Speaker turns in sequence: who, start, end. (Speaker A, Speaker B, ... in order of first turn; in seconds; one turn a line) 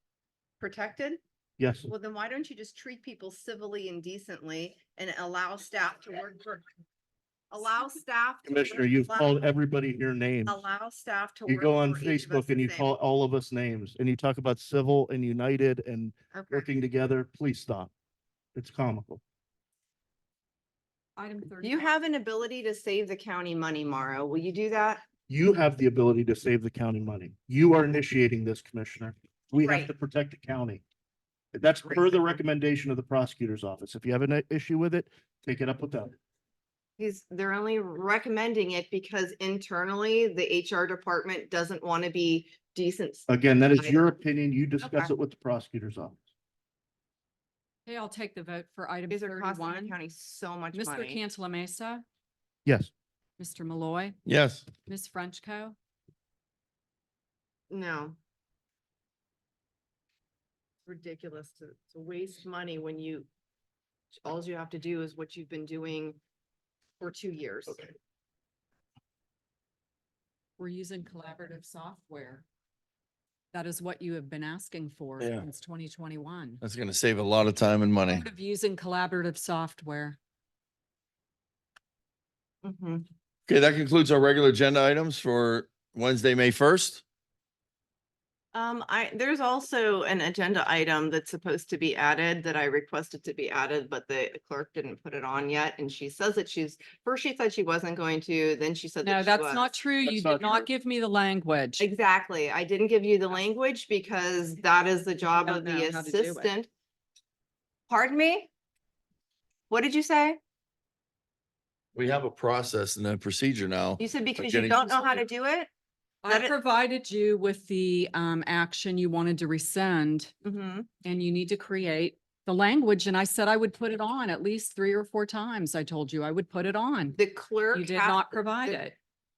Speaker A: 0.6-1.2
Speaker B: 1.6-1.9
Speaker A: 1.9-6.6
Speaker A: 7.5-9.4
Speaker B: 8.4-10.6
Speaker A: 10.4-12.9
Speaker B: 11.5-17.9
Speaker A: 16.3-16.7
Speaker B: 18.5-19.2
Speaker C: 21.2-21.9
Speaker A: 21.6-25.0
Speaker B: 25.3-30.8
Speaker A: 29.5-29.9
Speaker B: 31.5-36.1
Speaker A: 31.8-32.2
Speaker A: 37.0-44.1
Speaker B: 43.3-46.2
Speaker A: 44.8-45.1
Speaker C: 47.9-50.0
Speaker A: 49.1-51.2
Speaker C: 50.7-52.0
Speaker C: 53.4-54.2
Speaker D: 54.2-54.7
Speaker C: 54.8-55.7
Speaker A: 57.7-58.2
Speaker A: 60.8-63.3
Speaker A: 64.2-66.2
Speaker A: 67.0-67.9
Speaker C: 70.6-72.4
Speaker C: 73.5-76.6
Speaker D: 75.2-75.4
Speaker D: 76.6-78.3
Speaker C: 78.1-80.2
Speaker A: 82.6-83.0
Speaker D: 83.5-87.0
Speaker A: 88.5-99.7
Speaker C: 99.0-101.8
Speaker B: 100.0-100.6
Speaker A: 101.8-106.7
Speaker C: 105.4-106.5
Speaker A: 107.9-108.5
Speaker A: 109.7-110.4
Speaker D: 111.9-115.2
Speaker A: 114.0-115.7
Speaker C: 116.2-120.3
Speaker A: 116.3-116.5
Speaker A: 120.4-120.9
Speaker C: 121.0-127.2
Speaker A: 127.2-128.8
Speaker C: 127.7-128.9